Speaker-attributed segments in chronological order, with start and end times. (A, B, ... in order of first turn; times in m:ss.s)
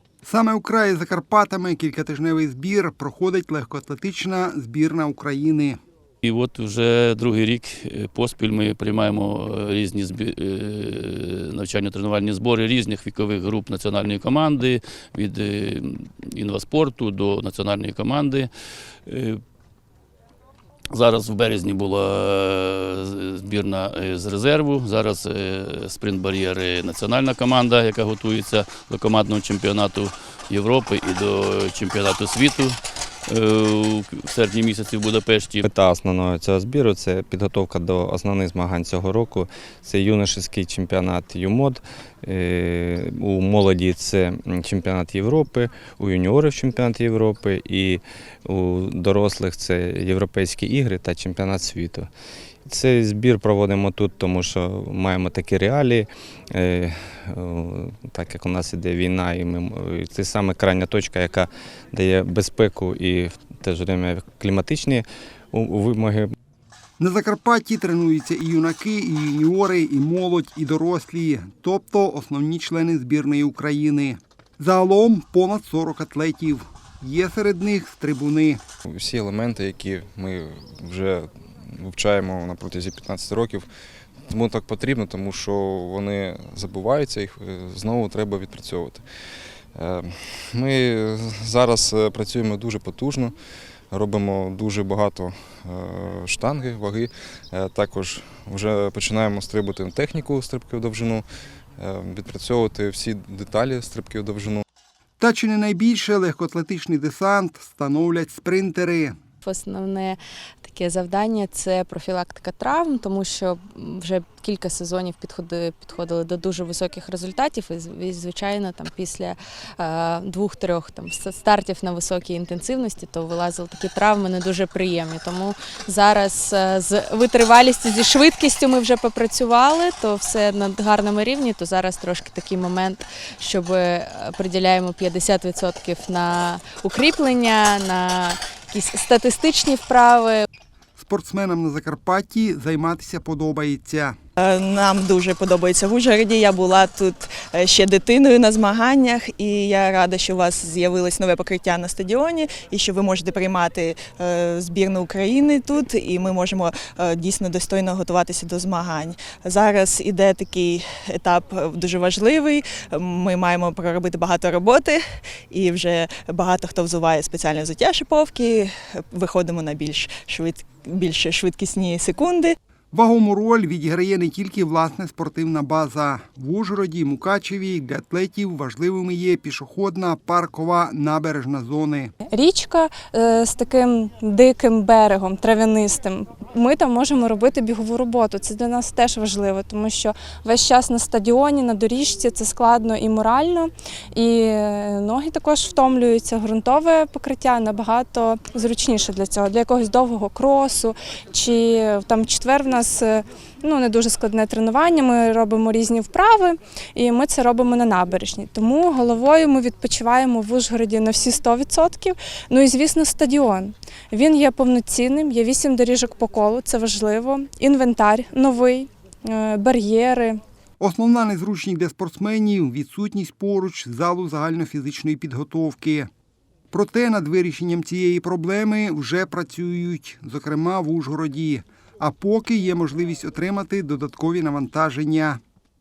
0:00.2-0:05.8 A
0:06.2-0:18.5 B
0:19.0-0:19.4 B
0:20.9-0:35.6 B
0:35.6-0:52.1 C
0:52.6-1:06.3 C
1:07.0-1:18.6 A
1:19.0-1:23.6 D
1:24.3-1:29.0 D
1:24.6-1:25.4 C
1:26.1-1:29.0 C
1:29.8-1:33.3 D
1:30.7-1:32.6 C
1:33.9-1:41.2 D
1:37.9-1:39.4 C
1:41.8-1:44.6 D
1:43.5-1:44.1 C
1:45.2-1:49.2 A
1:49.4-2:20.4 E
2:20.9-2:24.2 A
2:24.4-2:52.5 F
2:52.9-3:02.1 A
3:02.3-3:40.4 G
3:40.8-3:46.1 A
3:46.7-3:55.4 A